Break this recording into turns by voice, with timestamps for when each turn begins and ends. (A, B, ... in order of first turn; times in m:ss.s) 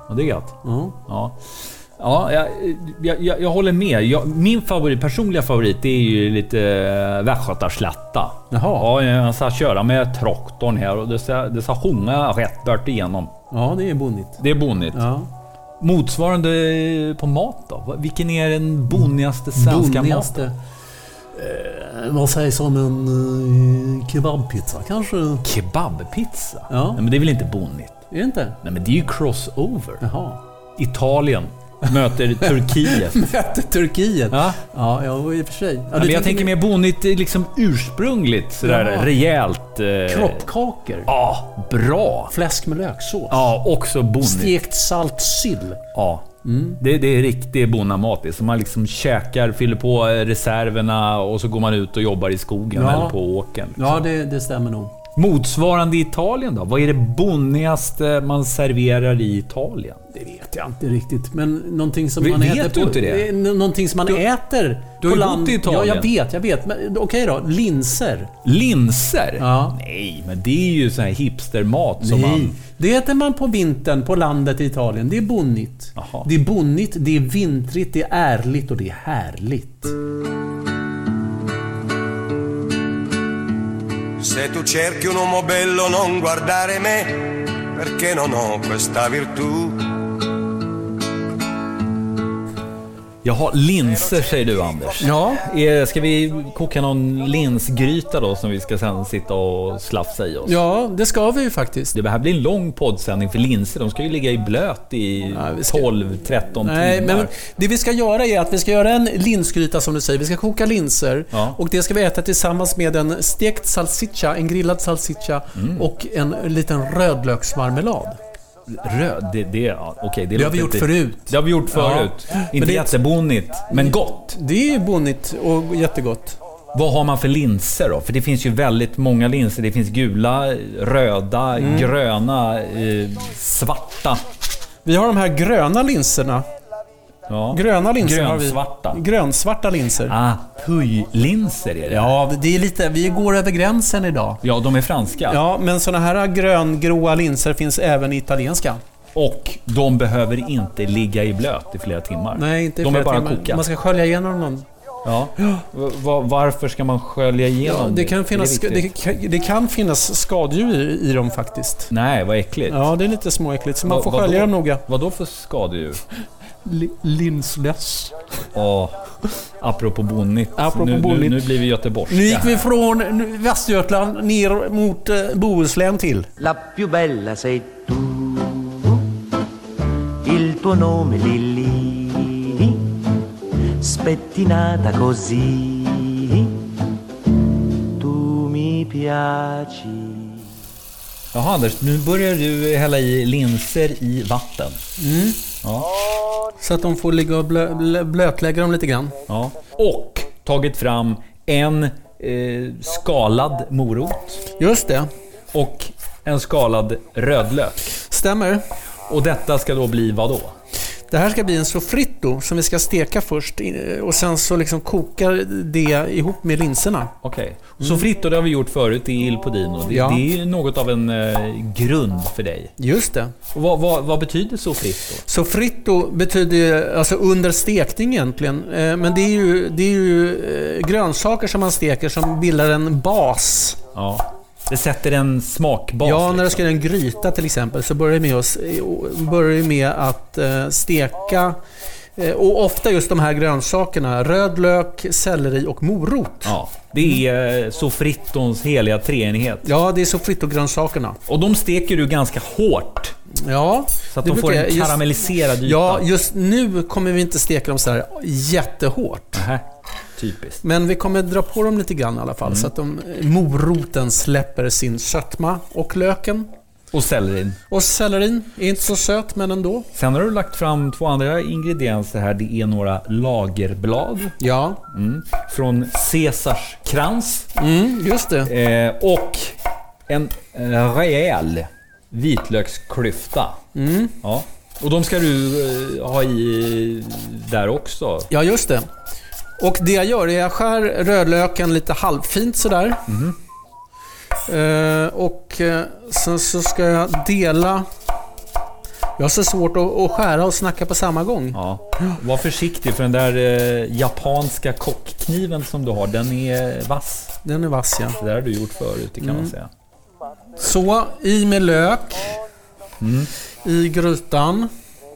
0:00.1-0:00.6 A
0:00.6-0:01.0 B
0:01.1-0:01.4 A
0:02.0-0:13.3 A
0:08.5-0:08.9 B
0:13.5-0:14.4 B
0:14.4-0:15.0 A
0:14.9-0:15.3 B
0:15.8-0:20.4 A
0:19.5-0:20.5 B
0:21.3-0:25.4 B
0:25.4-0:28.0 A
0:26.7-0:27.0 B
0:28.1-0:28.6 B
0:28.6-0:30.0 A
0:30.0-0:30.4 B
0:30.8-0:33.3 A
0:32.8-0:36.5 B
0:34.3-0:34.6 A
0:35.9-0:40.4 A
0:38.6-0:39.1 B
0:40.1-0:41.1 B
0:41.1-0:42.3 A
0:42.3-0:43.5 B
0:43.3-0:44.5 A
0:44.2-0:45.8 B
0:45.9-0:46.2 A
0:46.4-0:46.8 B
0:46.8-0:54.0 A
0:52.7-0:53.2 B
0:53.8-0:54.9 B
0:55.2-1:00.0 A
1:00.1-1:08.3 B
1:02.2-1:03.3 A
1:05.0-1:06.1 A
1:08.4-1:12.6 A
1:09.4-1:09.8 B
1:12.0-1:19.9 B
1:16.0-1:16.3 A
1:24.2-1:29.8 C
1:33.2-1:40.6 A
1:35.0-1:35.4 B
1:40.4-1:41.9 B
1:41.9-1:47.3 A
1:45.3-1:45.9 B
1:46.5-1:58.2 B
1:51.3-1:51.6 A
1:55.5-1:55.9 A
1:58.7-2:04.4 A
2:00.4-2:03.0 B
2:03.7-2:06.4 B
2:06.7-2:14.2 A
2:11.6-2:11.9 B
2:14.8-2:16.4 B
2:17.3-2:19.0 A
2:17.5-2:20.1 B
2:20.0-2:22.1 A
2:21.9-2:24.4 B
2:24.4-2:25.4 A
2:25.3-2:28.8 B
2:29.1-2:33.6 A
2:32.3-2:34.6 B
2:35.0-2:38.9 A
2:37.6-2:41.9 B
2:41.9-2:42.9 A
2:42.7-2:44.8 B
2:43.8-2:46.0 A
2:46.6-2:48.2 B
2:48.5-2:52.7 A
2:50.6-2:51.6 B
2:52.1-2:56.3 B
2:56.4-2:59.0 D
3:00.2-3:02.8 D
3:03.8-3:06.5 D
3:08.0-3:10.4 D
3:11.3-3:14.8 A
3:15.0-3:15.4 B
3:15.6-3:15.9 A
3:16.6-3:19.1 B
3:19.3-3:24.4 A
3:24.6-3:25.1 B
3:25.5-3:28.0 A
3:28.0-3:28.6 B
3:29.1-3:30.5 A
3:31.1-3:37.1 B
3:37.2-3:42.7 A
3:39.9-3:40.2 B
3:42.8-3:43.3 B
3:43.5-3:45.2 A
3:45.2-3:53.8 B
3:53.9-3:56.6 A
3:56.0-4:01.6 B
4:02.2-4:06.6 B
4:06.4-4:09.7 A
4:09.6-4:11.2 B
4:11.2-4:13.1 A
4:13.4-4:19.4 B
4:14.1-4:16.0 A
4:19.3-4:19.6 A
4:20.2-4:20.6 A
4:20.6-4:26.5 B
4:22.4-4:22.7 A
4:26.9-4:27.6 A
4:27.7-4:29.8 B
4:29.9-4:34.4 A
4:34.4-4:34.8 B
4:34.9-4:37.5 A
4:37.6-4:38.5 B
4:38.4-4:39.6 A
4:40.1-4:43.6 A
4:43.7-4:44.2 B
4:44.2-4:48.3 A
4:48.3-4:48.9 B
4:49.6-4:53.0 B
4:53.1-4:53.4 A
4:54.5-4:57.8 B
4:59.2-5:01.6 B
5:01.5-5:07.3 A
5:07.4-5:08.2 B
5:08.2-5:09.7 A
5:09.2-5:09.5 B
5:10.6-5:12.4 B
5:13.0-5:13.3 A
5:13.6-5:14.7 B